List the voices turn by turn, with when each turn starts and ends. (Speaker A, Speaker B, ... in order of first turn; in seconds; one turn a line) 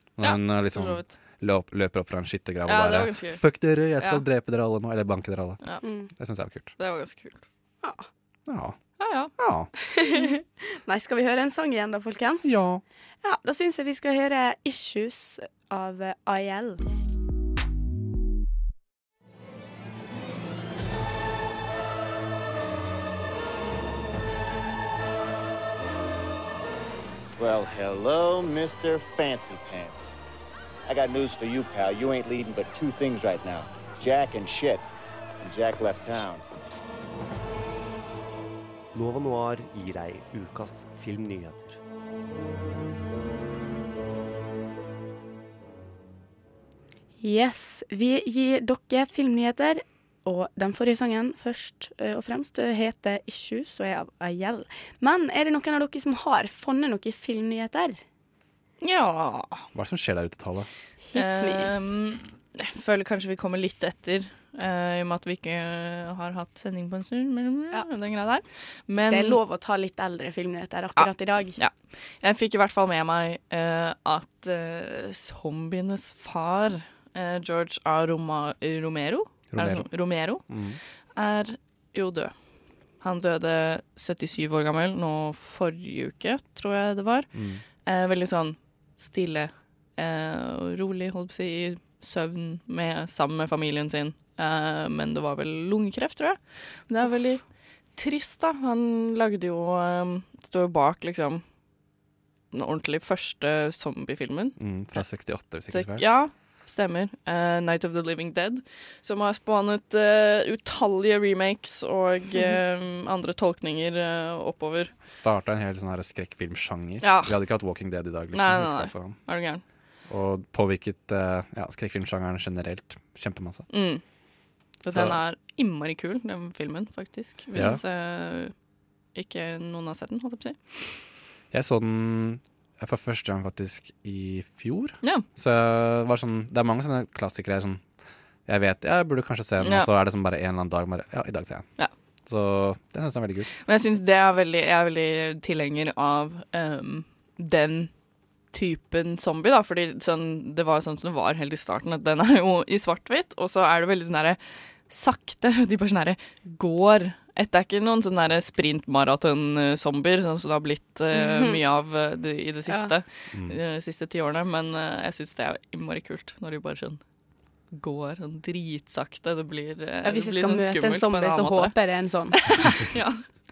Speaker A: 0.2-5.6
Speaker B: 0.2-1.1
Speaker B: 2.6-3.4
Speaker C: 5.8-6.1
Speaker A: 6.2-6.7
Speaker B: 6.8-7.4
Speaker A: 8.5-8.8
Speaker B: 9.0-9.3
Speaker A: 9.4-9.7
Speaker C: 9.8-12.5
Speaker A: 12.4-12.8
Speaker C: 13.2-16.9
Speaker D: 27.4-30.2
Speaker D: 30.9-34.8
Speaker D: 35.4-36.4
Speaker E: 38.9-41.8
Speaker C: 47.2-58.0
Speaker B: 58.8-59.6
Speaker A: 59.7-60.7
Speaker C: 61.1-61.7
Speaker B: 61.1-69.4
Speaker C: 69.1-71.6
Speaker B: 71.0-80.5
Speaker A: 79.5-80.8
Speaker B: 81.2-82.3
Speaker B: 83.0-87.3
Speaker A: 87.3-87.6
Speaker B: 87.8-97.4
Speaker B: 98.0-101.4
Speaker B: 102.5-104.6
Speaker A: 104.6-106.0
Speaker B: 105.7-114.9
Speaker A: 115.0-119.2
Speaker B: 117.0-117.4
Speaker B: 118.3-119.6
Speaker A: 120.1-123.7
Speaker B: 123.7-124.0
Speaker B: 124.8-128.5
Speaker A: 124.9-125.2
Speaker A: 127.5-127.8
Speaker B: 129.2-131.0
Speaker A: 131.5-137.8
Speaker A: 138.5-141.7
Speaker B: 139.6-139.9
Speaker A: 142.3-143.5
Speaker B: 143.7-147.9
Speaker B: 148.5-167.0
Speaker C: 161.1-161.6
Speaker B: 167.7-171.8
Speaker C: 170.0-172.9
Speaker B: 172.3-173.2